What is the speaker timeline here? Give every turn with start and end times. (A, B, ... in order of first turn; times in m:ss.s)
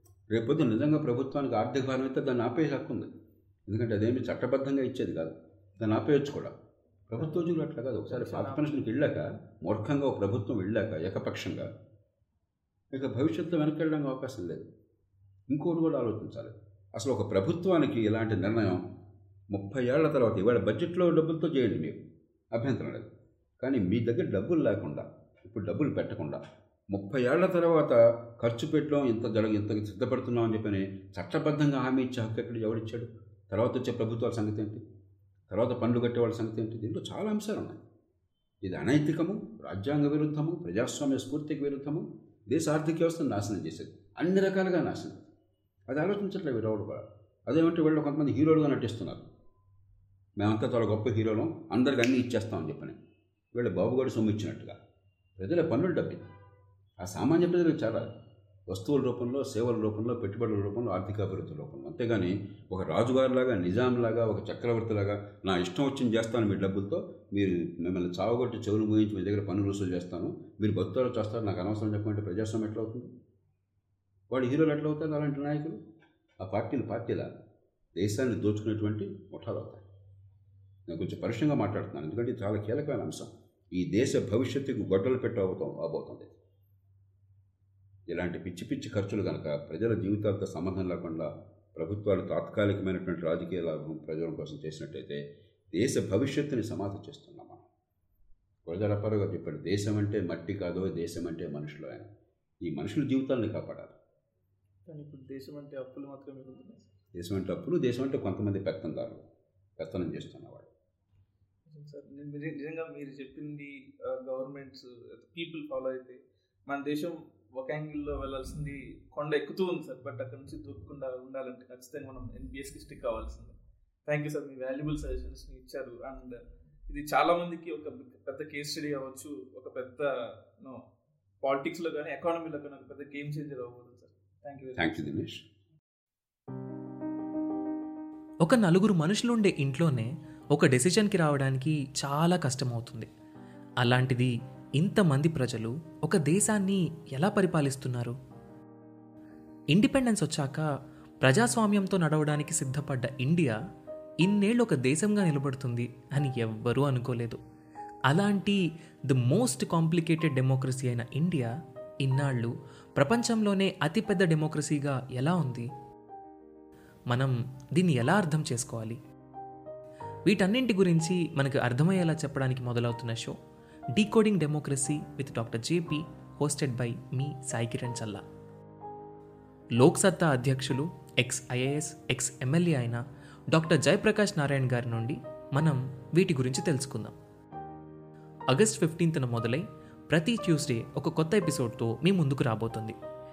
0:00.3-0:03.1 A
0:03.7-0:06.5 A
0:07.1-0:11.7 A
0:08.1-0:08.8 B
0:12.9-0:14.6 A
0:15.5-0:18.8 A
0:19.5-0:22.0 A
0:22.5-0:23.1 A
0:23.6-0:34.8 A
0:35.5-0:37.8 A
0:38.6-0:45.3 A
0:45.9-0:49.2 A
0:50.4-0:53.0 A
0:53.5-0:54.8 A
0:55.4-0:56.2 A
0:57.0-0:58.2 A
0:58.7-1:13.1 A
1:14.3-1:15.8 A
1:16.4-1:17.3 A
1:18.0-1:19.8 A
1:20.9-1:26.3 A
1:28.1-1:35.2 A
1:35.7-1:37.6 A
1:38.7-1:42.1 A
1:42.6-1:43.9 A
1:44.9-1:46.9 B
1:47.2-1:49.2 A
1:49.8-1:50.7 A
1:51.6-2:03.6 B
2:04.1-2:10.8 B
2:11.4-2:15.1 B
2:14.8-2:15.4 A
2:18.4-2:23.1 C
2:23.8-2:28.2 C
2:29.7-2:30.6 C
2:31.2-2:33.6 C
2:34.2-2:37.4 C
2:38.1-2:41.5 C
2:42.0-2:45.7 C
2:47.1-2:49.0 C
2:50.3-2:53.4 C
2:54.0-2:58.2 C
2:59.8-3:03.0 C
3:03.5-3:07.1 C
3:08.5-3:13.0 C